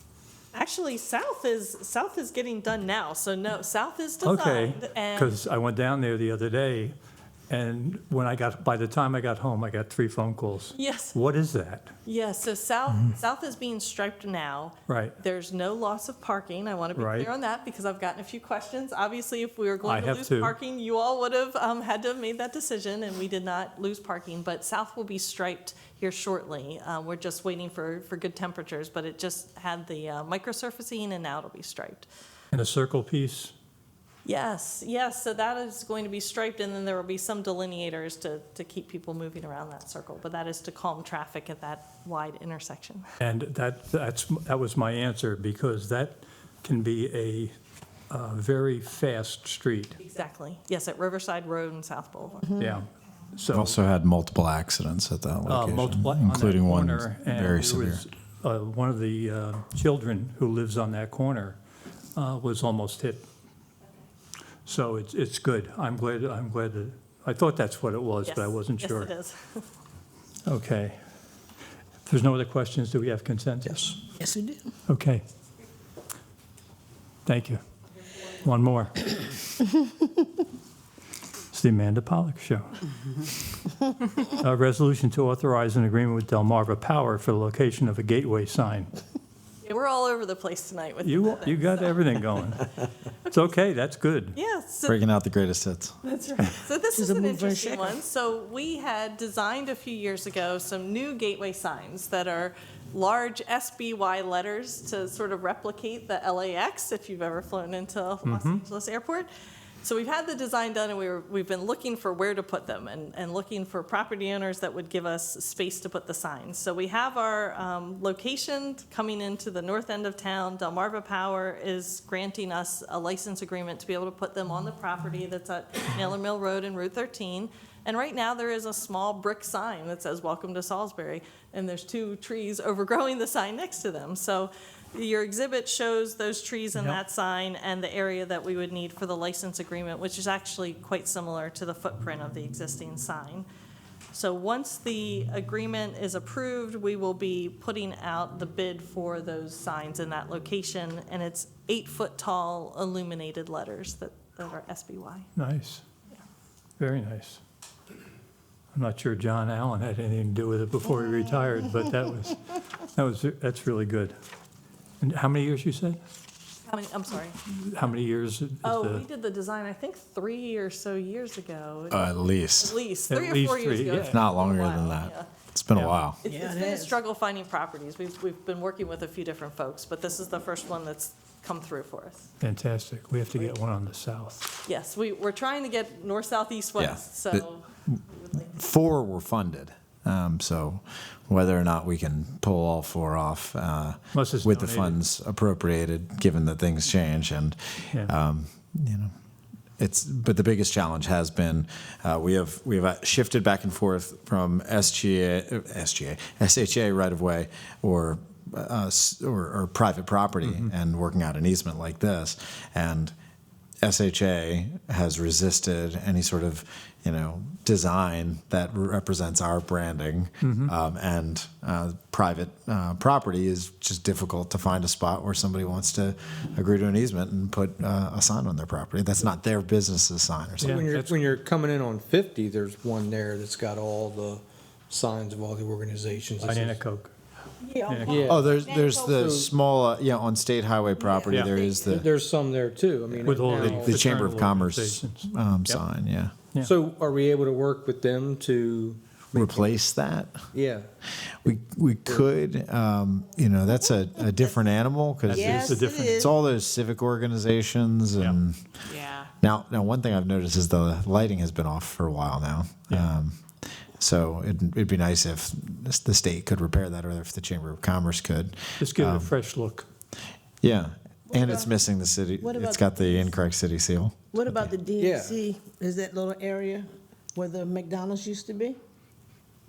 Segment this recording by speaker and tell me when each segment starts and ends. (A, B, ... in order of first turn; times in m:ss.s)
0:00.5-0:05.4 A
0:04.2-0:07.0 B
0:07.5-0:11.9 B
0:10.8-0:11.2 A
0:12.1-0:32.1 A
0:14.9-0:15.2 B
0:17.0-0:17.3 B
0:19.8-0:20.5 B
0:32.5-0:33.5 B
0:34.2-0:43.1 A
0:43.2-0:47.5 B
0:48.1-0:50.0 B
0:50.0-0:52.6 A
0:52.6-0:53.8 B
0:53.5-0:58.0 C
0:55.5-1:01.6 B
1:02.2-1:03.2 B
1:04.7-1:09.1 B
1:08.2-1:09.6 A
1:10.5-1:11.0 B
1:12.0-1:14.0 B
1:13.7-1:13.9 D
1:14.2-1:14.7 E
1:14.9-1:15.2 B
1:17.3-1:17.6 B
1:18.4-1:19.2 B
1:21.5-1:22.8 B
1:24.2-1:28.9 B
1:29.6-1:32.0 A
1:31.0-1:32.7 B
1:33.3-1:33.6 A
1:33.3-1:34.4 B
1:34.3-1:35.1 A
1:34.9-1:36.0 C
1:36.0-1:49.3 A
1:36.9-1:38.0 E
1:48.2-1:48.6 B
1:49.8-2:23.5 A
2:16.7-2:17.0 B
2:24.1-2:35.3 A
2:35.4-2:35.8 B
2:36.8-2:37.4 B
2:38.7-2:44.2 B
2:45.0-2:46.0 B
2:46.7-2:47.4 A
2:47.5-2:49.0 B
2:48.6-2:55.3 A
2:51.9-2:52.8 C
2:53.1-2:54.2 B
2:54.0-2:56.2 C
2:55.7-2:56.0 B
2:56.2-3:02.3 A
2:56.3-2:57.0 E
3:02.4-3:04.5 B
3:04.7-3:08.6 A
3:06.8-3:07.4 C
3:08.5-3:19.1 C
3:14.1-3:15.0 B
3:19.8-3:33.1 C
3:30.4-3:30.7 B
3:33.8-3:50.8 C
3:40.4-3:40.7 B
3:50.6-3:51.3 B
3:50.6-3:56.8 D
3:56.4-3:57.1 B
3:57.6-3:59.2 E
3:57.8-3:58.4 B
3:58.0-3:58.5 D
3:58.2-4:02.1 C
3:59.1-3:59.5 D
4:01.0-4:02.0 E
4:01.8-4:04.0 D
4:03.2-4:06.4 C
4:03.2-4:05.8 B
4:06.6-4:09.8 D
4:09.4-4:10.5 C
4:10.5-4:10.9 D
4:11.4-4:18.8 C
4:15.3-4:16.3 B
4:15.3-4:16.3 E
4:19.4-4:29.3 C
4:28.8-4:29.9 B
4:30.6-4:34.7 C
4:31.3-4:31.7 E
4:32.4-4:33.3 E
4:34.3-4:38.8 E
4:35.0-4:35.4 D